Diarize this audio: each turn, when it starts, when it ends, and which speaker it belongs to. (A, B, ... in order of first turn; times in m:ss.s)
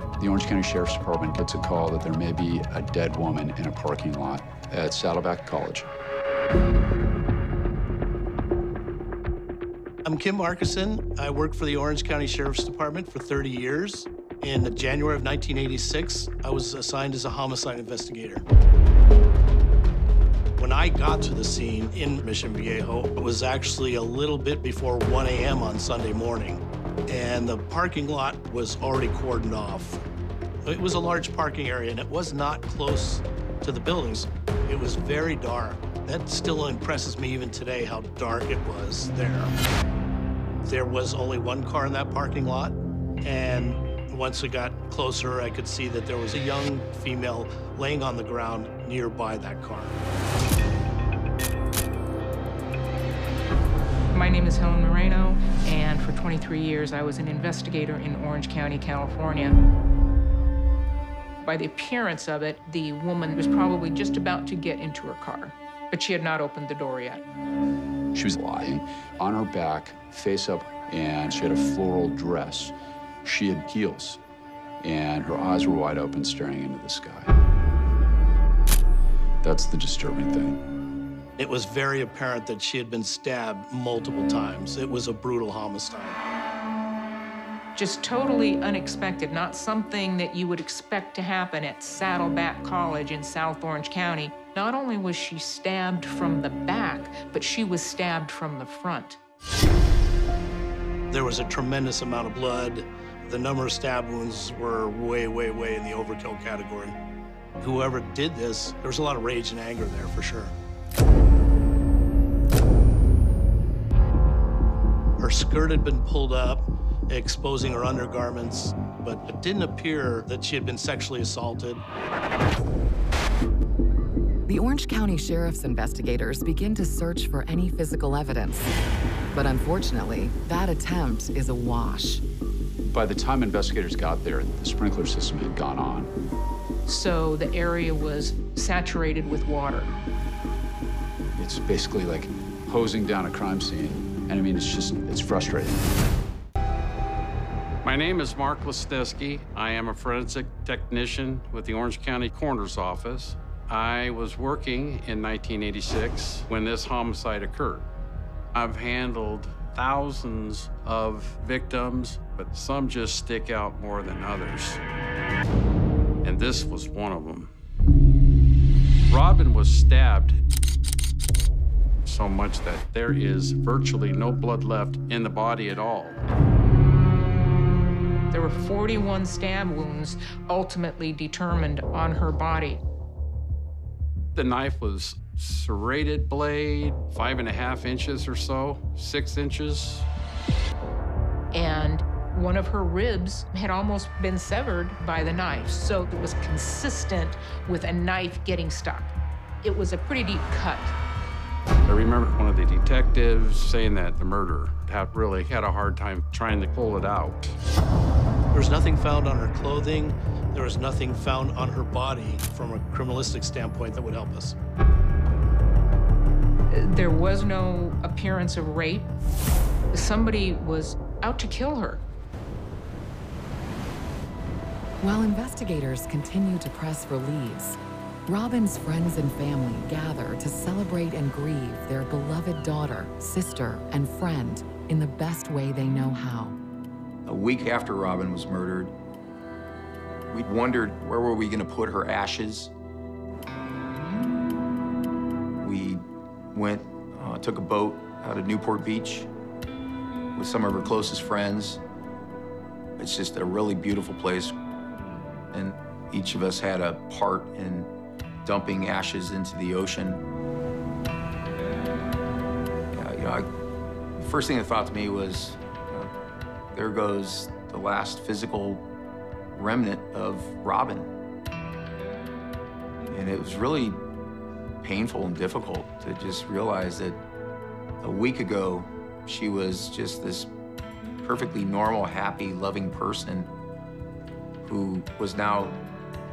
0:00.2-0:05.9 A
0:10.0-0:18.4 B
0:20.6-0:30.0 B
0:30.6-0:39.5 B
0:40.6-0:50.0 B
0:54.1-0:59.6 C
1:01.4-1:07.2 C
1:08.1-1:12.7 A
1:13.2-1:14.2 A
1:14.8-1:17.3 A
1:19.4-1:20.6 A
1:21.4-1:26.2 B
1:27.8-1:39.2 C
1:41.1-1:47.0 B
1:47.6-1:50.5 B
1:55.2-2:01.8 B
2:04.5-2:08.7 D
2:09.3-2:12.2 D
2:12.9-2:16.1 A
2:16.9-2:19.9 C
2:21.4-2:25.9 A
2:27.8-2:37.9 E
2:38.6-2:44.8 E
2:46.2-2:47.5 E
2:49.1-2:50.4 E
2:52.1-2:56.2 E
2:58.3-3:02.8 C
3:04.4-3:10.1 E
3:11.5-3:20.9 C
3:21.9-3:27.6 E
3:28.5-3:34.6 B
3:36.7-3:39.1 C
3:39.9-3:42.0 C
3:45.0-3:56.6 D
3:57.3-3:58.9 F
4:00.3-4:02.7 F
4:05.6-4:09.3 F
4:10.4-4:11.8 F
4:13.0-4:14.5 F
4:15.5-4:17.9 F
4:18.4-4:20.2 F
4:22.9-4:23.5 F
4:24.2-4:26.1 F
4:26.7-4:28.9 F
4:29.5-4:31.1 F
4:33.1-4:34.0 F
4:34.8-4:37.2 F
4:38.0-4:40.5 F
4:41.2-4:43.5 F
4:44.6-4:45.8 F